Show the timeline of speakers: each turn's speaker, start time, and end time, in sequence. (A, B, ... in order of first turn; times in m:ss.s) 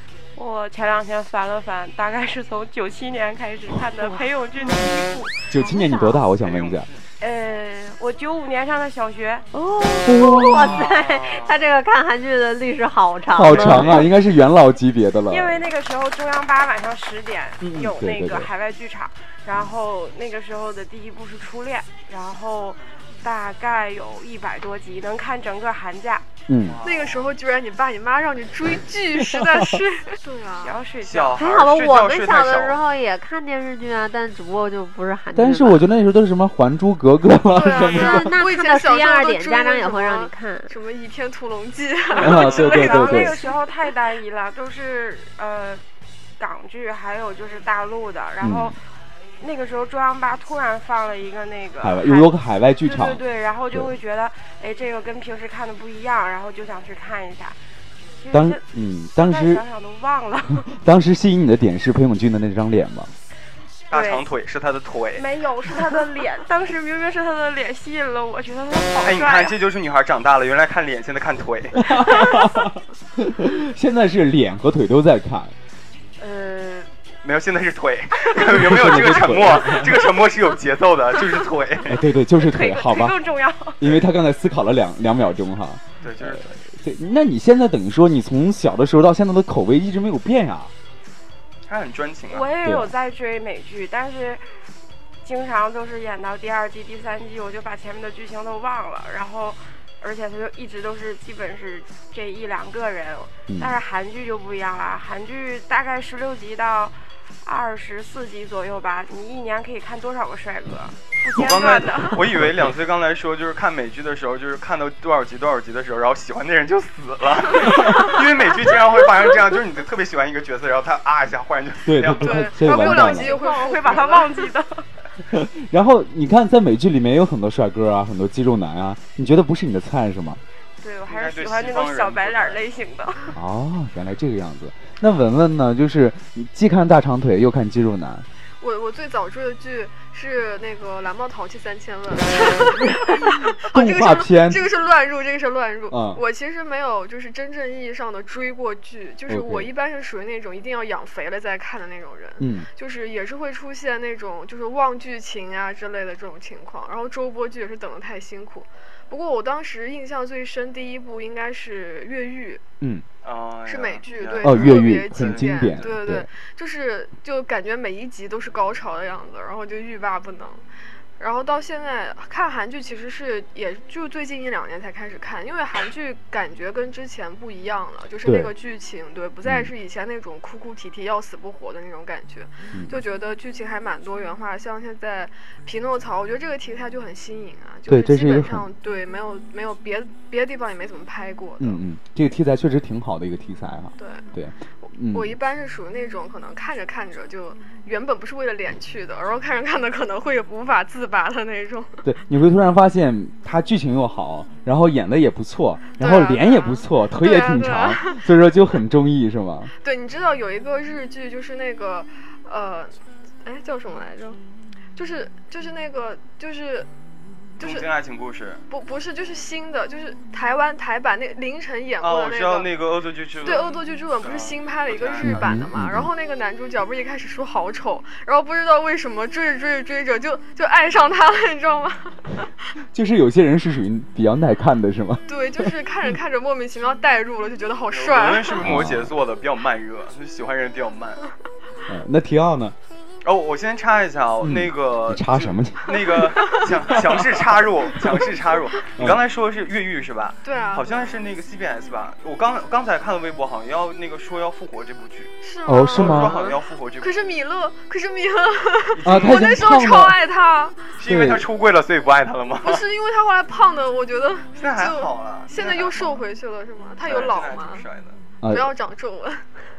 0:00.4-0:05.5 A
0:05.5-0:06.9 B
0:05.6-0:06.2 C
0:06.4-0:07.0 D
0:07.2-0:09.5 A
0:09.5-0:14.1 C
0:10.0-0:11.0 B
0:10.6-0:11.6 D
0:13.3-0:15.6 B
0:13.5-0:14.1 D
0:13.6-0:14.0 A
0:15.3-0:26.2 A
0:17.6-0:18.5 B
0:26.5-0:26.8 B
0:26.6-0:27.3 D
0:26.8-0:30.8 E
0:29.2-0:29.8 B
0:30.6-0:31.4 A
0:31.0-0:32.8 D
0:31.4-0:35.8 C
0:35.4-0:38.4 B
0:37.5-0:43.5 E
0:37.8-0:40.8 C
0:42.1-0:45.8 A
0:42.2-0:43.4 B
0:42.4-0:42.7 D
0:46.4-0:48.8 A
0:48.4-0:48.8 B
0:49.4-0:57.6 A
0:51.8-0:53.9 B
0:58.2-0:58.6 A
0:58.3-0:59.6 B
0:59.2-1:00.7 A
1:00.7-1:03.1 B
1:03.9-1:05.2 D
1:03.9-1:04.3 A
1:05.2-1:09.6 A
1:09.0-1:12.0 D
1:11.8-1:15.5 B
1:16.2-1:16.9 A
1:17.2-1:22.0 D
1:18.4-1:20.1 B
1:21.9-1:23.2 B
1:22.2-1:23.8 A
1:23.8-1:30.7 B
1:26.0-1:26.6 D
1:31.7-1:32.5 D
1:32.3-1:34.6 A
1:32.6-1:32.9 B
1:35.2-1:52.4 A
1:43.5-1:43.8 B
1:51.4-2:02.7 D
1:52.3-1:52.7 B
2:01.9-2:03.4 B
2:02.2-2:04.5 E
2:02.7-2:04.9 A
2:05.3-2:10.4 B
2:10.8-2:13.4 A
2:11.1-2:12.6 D
2:13.3-2:18.3 B
2:18.6-2:42.6 E
2:23.6-2:24.7 B
2:25.9-2:26.2 B
2:29.3-2:29.7 B
2:32.4-2:32.7 B
2:43.2-2:45.7 D
2:43.7-2:50.6 E
2:44.4-2:46.3 B
2:51.2-3:11.8 E
2:58.2-2:58.5 B
2:59.4-2:59.7 B
3:07.9-3:08.7 B
3:11.6-3:15.4 B
3:14.0-3:14.3 E
3:14.9-3:22.0 E
3:22.0-3:29.7 B
3:26.0-3:28.3 E
3:29.8-3:34.4 E
3:35.0-3:36.9 E
3:37.6-3:37.9 E
3:37.6-3:38.6 D
3:38.7-3:42.7 E
3:42.0-3:45.6 D
3:43.4-3:52.5 E
3:45.2-3:46.1 B
3:52.9-3:55.7 B
3:55.3-3:58.7 E
3:57.9-4:01.3 D
3:58.6-3:59.1 B
4:01.9-4:02.8 B
4:03.2-4:15.3 D
4:04.4-4:06.2 B
4:06.2-4:06.7 E
4:06.8-4:07.3 B
4:10.4-4:11.2 E
4:15.4-4:20.9 E
4:15.7-4:16.4 B
4:15.9-4:17.2 D
4:16.2-4:16.6 C
4:18.9-4:19.6 D
4:19.0-4:20.2 B
4:21.0-4:22.8 D
4:21.1-4:21.5 B
4:22.6-4:27.9 E
4:24.6-4:26.2 D
4:27.0-4:28.2 D
4:28.4-4:28.7 B
4:28.5-4:29.5 E